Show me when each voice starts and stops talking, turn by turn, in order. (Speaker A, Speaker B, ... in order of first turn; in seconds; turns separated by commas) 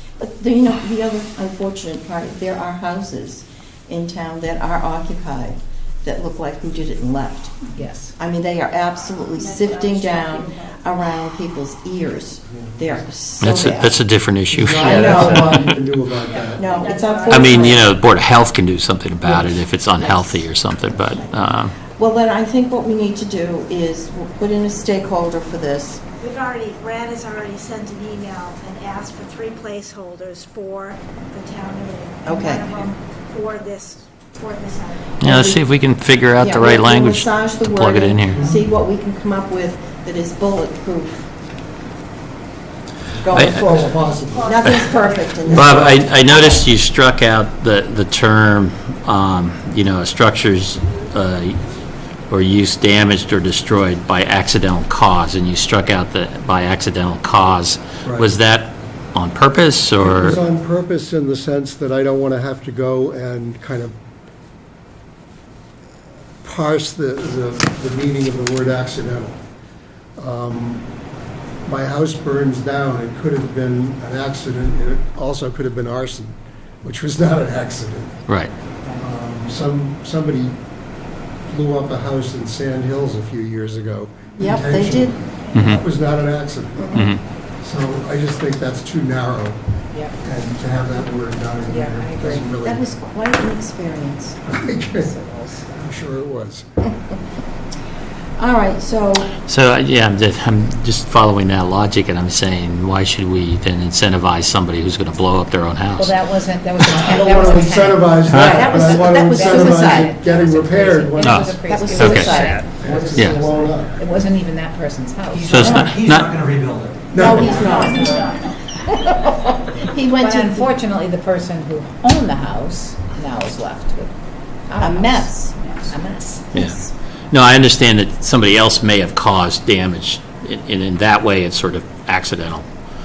Speaker A: 0.2-7.6, Speaker B: 7.7-8.2, Speaker A: 8.2-14.0, Speaker C: 8.9-10.9, Speaker D: 12.5-12.9, Speaker E: 13.4-15.8, Speaker D: 14.5-16.7, Speaker A: 14.8-15.6, Speaker C: 16.2-18.0, Speaker A: 16.6-17.9, Speaker E: 17.3-21.8, Speaker D: 19.2-19.6, Speaker A: 20.0-20.5, Speaker A: 21.9-26.0, Speaker C: 26.2-35.2, Speaker A: 32.2-32.8, Speaker E: 35.2-38.5, Speaker A: 35.2-35.6, Speaker A: 36.4-41.3, Speaker D: 38.3-38.6, Speaker D: 43.2-44.8, Speaker A: 43.2-43.6, Speaker E: 43.3-43.8, Speaker C: 43.6-46.2, Speaker A: 44.4-46.0, Speaker D: 45.5-46.0, Speaker E: 45.5-51.7, Speaker E: 52.3-60.4, Speaker D: 58.0-58.3, Speaker D: 60.0-64.0, Speaker D: 66.4-69.4, Speaker D: 70.2-70.9, Speaker D: 71.7-78.2, Speaker D: 79.0-80.6, Speaker D: 81.5-89.6, Speaker A: 84.4-85.2, Speaker E: 85.5-85.8, Speaker E: 86.9-87.2, Speaker D: 90.2-92.9, Speaker B: 91.7-92.5, Speaker A: 92.6-94.4, Speaker D: 94.5-95.2, Speaker B: 95.0-95.9, Speaker D: 95.8-96.7, Speaker A: 98.4-99.4, Speaker E: 99.4-106.2, Speaker B: 106.0-115.8, Speaker D: 106.8-111.6, Speaker E: 108.3-108.7, Speaker A: 108.4-110.1, Speaker E: 111.2-113.4, Speaker A: 111.7-112.7, Speaker D: 112.8-113.9, Speaker F: 115.3-118.4, Speaker E: 115.5-116.3, Speaker D: 117.1-117.6, Speaker A: 117.2-118.4, Speaker B: 117.3-118.5, Speaker A: 119.9-120.7, Speaker B: 120.0-124.1, Speaker B: 124.7-126.5, Speaker A: 124.8-125.7, Speaker A: 126.5-126.9, Speaker E: 127.3-132.7